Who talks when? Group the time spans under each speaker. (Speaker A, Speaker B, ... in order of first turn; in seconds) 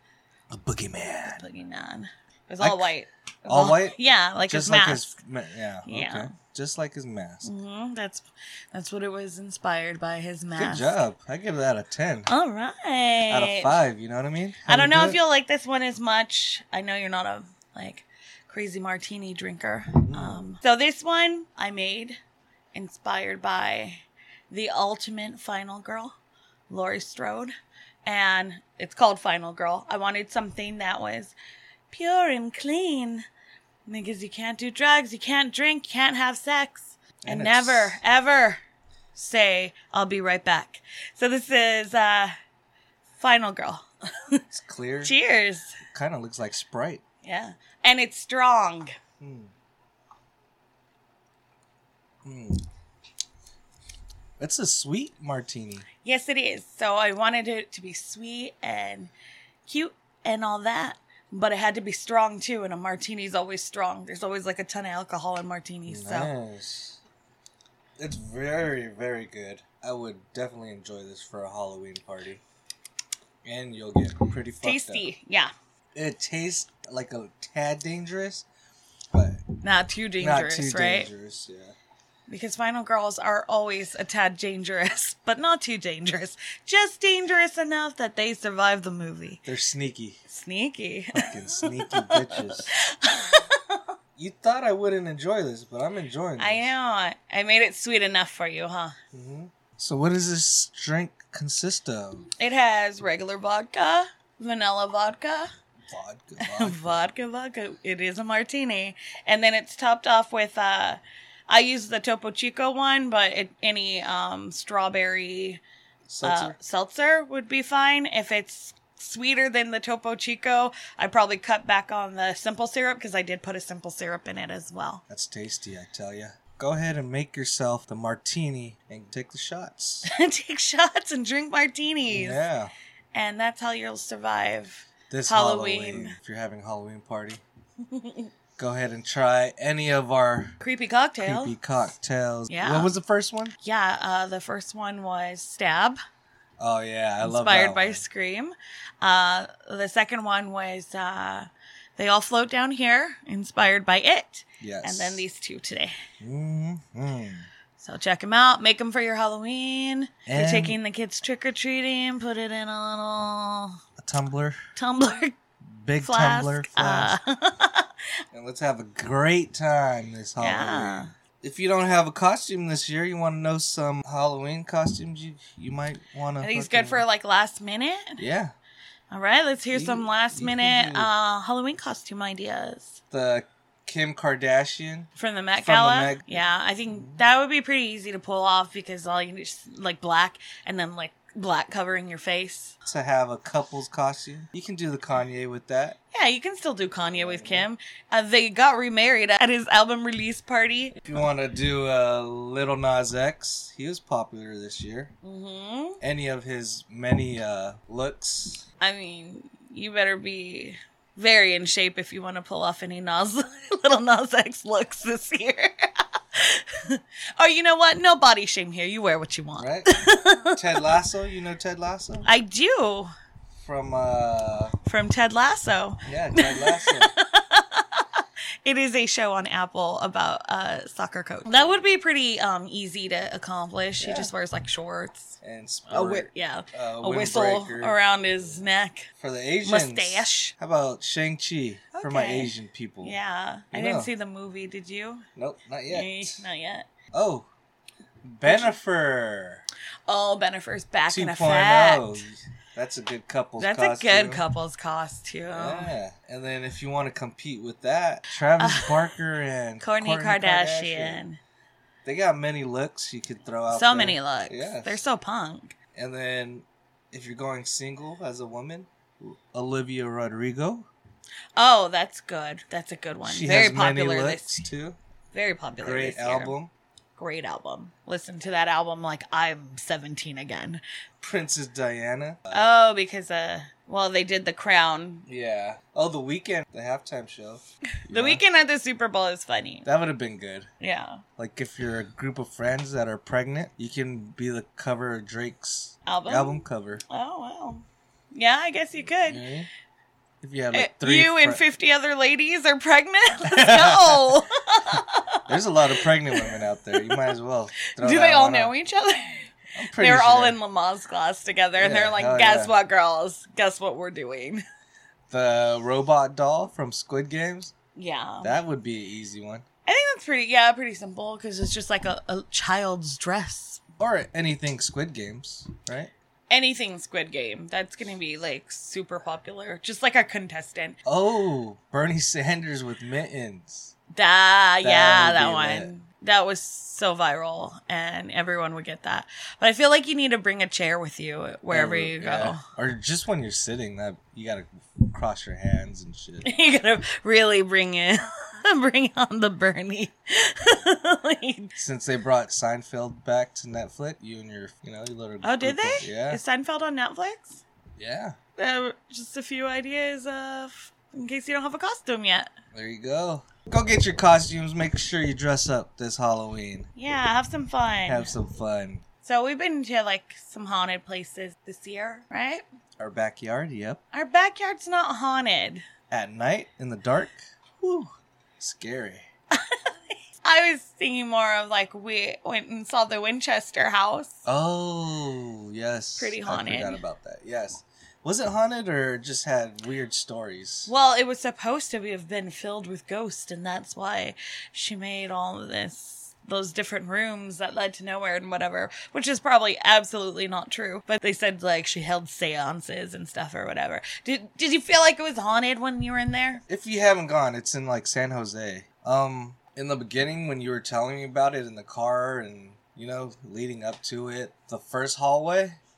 Speaker A: 0.5-1.4, 2.6-2.9, 3.4-7.5, 10.5-12.3, 13.3-15.2, 20.0-20.5, 37.2-38.0, 44.5-45.1, 45.8-47.0, 49.2-49.5, 52.2-52.6, 54.4-55.8, 65.9-67.0, 68.0-72.4, 73.4-75.1, 75.9-78.4, 79.1-79.4, 80.2-81.7, 89.4-90.2, 91.1-92.7, 94.2-96.7, 99.1-102.3, 105.9-107.0, 116.0-116.6, 125.1-130.1, 132.1-132.7, 135.1-137.4, 138.6-140.6, 141.2-143.5, 146.6-148.0, 154.6-155.2, 156.2-157.5, 160.2-160.8, 164.0-164.6, 165.7-167.2, 168.3-177.0, 178.2-178.5, 179.7-181.1, 183.1-185.1, 185.6-187.2, 192.8-196.0, 197.0-197.7, 201.0-205.1, 206.0-208.6, 219.6-222.3, 223.6-224.8, 226.1-227.1, 234.0-234.3, 235.4-238.6, 239.2-243.2, 243.7-244.1, 245.3-246.4, 247.1-247.5, 248.2-249.6, 251.1-254.4, 255.5-261.2, 262.0-265.0, 265.9-270.9, 273.2-275.0, 275.8-276.7, 281.2-282.6, 285.3-288.4, 289.8-290.7, 291.4-297.0, 299.2-299.7, 300.4-301.6, 303.5-304.3, 305.5-308.7, 309.7-310.6, 311.8-312.7, 315.3-317.7, 318.4-319.6, 324.0-326.1, 331.0-333.9, 334.8-335.9, 341.7-346.5, 351.8-356.4, 358.0-358.4, 362.7-366.9, 368.1-369.0, 373.0-374.0, 376.1-379.2, 384.4-390.9, 406.7-415.8
Speaker B: 1.2-5.2, 5.8-6.3, 7.4-11.0, 12.3-13.8, 14.7-22.2, 22.7-26.1, 26.7-27.5, 28.0-31.3, 31.9-33.2, 33.9-38.6, 39.1-42.3, 43.2-44.4, 45.0-45.8, 47.2-48.9, 56.0-59.1, 59.6-66.3, 74.6-75.5, 79.6-81.1, 82.3-89.4, 90.3-93.9, 96.4-98.9, 102.4-105.5, 106.4-115.6, 116.2-125.0, 130.0-132.4, 133.1-136.1, 137.8-138.3, 140.6-141.6, 142.5-142.9, 143.6-146.0, 147.2-155.9, 157.8-163.8, 164.8-165.3, 166.0-167.9, 170.4-171.1, 176.4-178.2, 179.1-183.0, 185.2-192.7, 196.1-201.2, 205.2-206.0, 208.8-220.9, 222.2-223.1, 224.8-239.1, 239.6-240.5, 241.9-245.2, 245.9-246.9, 248.4-248.7, 250.1-252.2, 253.6-255.9, 258.6-259.1, 259.8-261.4, 263.7-265.7, 271.6-274.6, 275.3-276.5, 277.2-280.8, 282.5-285.3, 288.0-289.9, 290.8-291.2, 296.1-299.4, 300.7-307.3, 307.9-314.6, 317.9-318.6, 319.9-323.8, 326.5-331.0, 334.1-342.6, 346.4-351.7, 355.4-357.6, 358.6-362.5, 366.9-368.3, 369.2-372.6, 374.1-375.8, 379.5-384.4, 386.2-387.0, 390.9-406.6